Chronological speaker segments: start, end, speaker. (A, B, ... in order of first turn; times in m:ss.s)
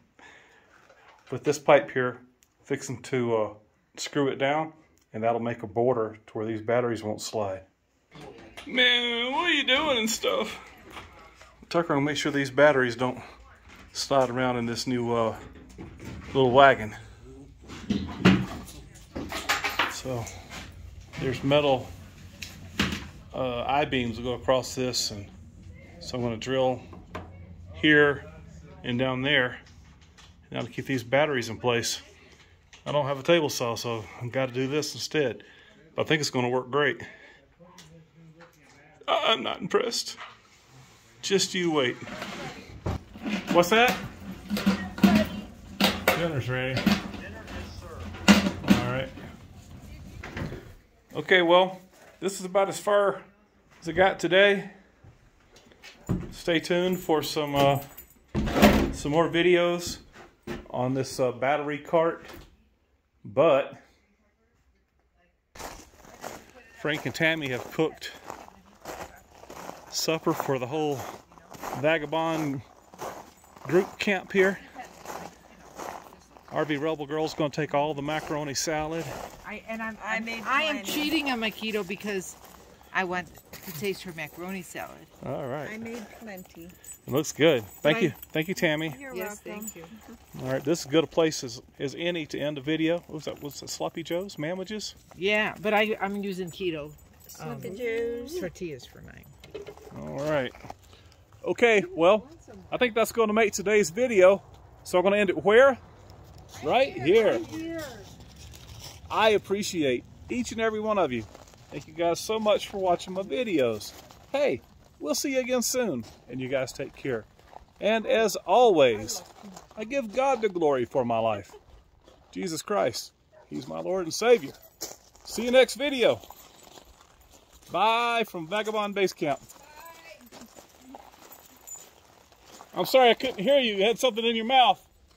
0:01.3-0:07.6 A
0:08.6-0:10.6 A
0:11.7-0:13.2 A
0:13.9-0:15.4 A
0:16.3-0:17.0 A
0:19.9-0:20.3 A
0:21.2-0:21.9 A
0:23.3-0:25.3 A
0:26.0-0:26.8 A
0:27.8-0:28.2 A
0:28.8-0:29.6 A
0:30.5-0:32.0 A
0:32.8-0:37.0 A
0:39.0-0:40.2 A
0:41.2-0:42.0 A
0:43.5-0:44.0 A
0:46.1-0:46.8 A
0:48.6-0:49.1 A
0:51.1-0:53.3 A
0:53.8-0:54.7 A
0:56.3-0:57.8 A
0:58.9-1:00.0 A
1:00.7-1:02.3 A
1:03.2-1:03.8 A
1:06.7-1:08.2 A
1:09.9-1:11.1 A
1:11.7-1:12.6 A
1:13.6-1:14.7 A
1:16.5-1:19.1 A
1:19.4-1:22.4 B
1:20.0-1:21.1 C
1:22.9-1:25.1 B
1:25.2-1:25.8 A
1:25.6-1:26.7 C
1:27.0-1:29.0 A
1:27.8-1:28.1 B
1:28.8-1:29.8 C
1:29.1-1:29.9 B
1:30.3-1:34.9 A
1:35.1-1:39.3 B
1:37.3-1:38.5 C
1:39.9-1:40.5 A
1:41.4-1:45.8 A
1:42.0-1:42.6 B
1:46.6-1:47.5 A
1:46.6-1:48.1 B
1:47.2-1:47.7 C
1:49.1-1:57.3 A
1:57.8-1:59.2 A
1:59.8-2:01.5 A
2:02.3-2:04.6 A
2:05.2-2:06.2 A
2:07.7-2:09.5 A
2:12.7-2:14.9 A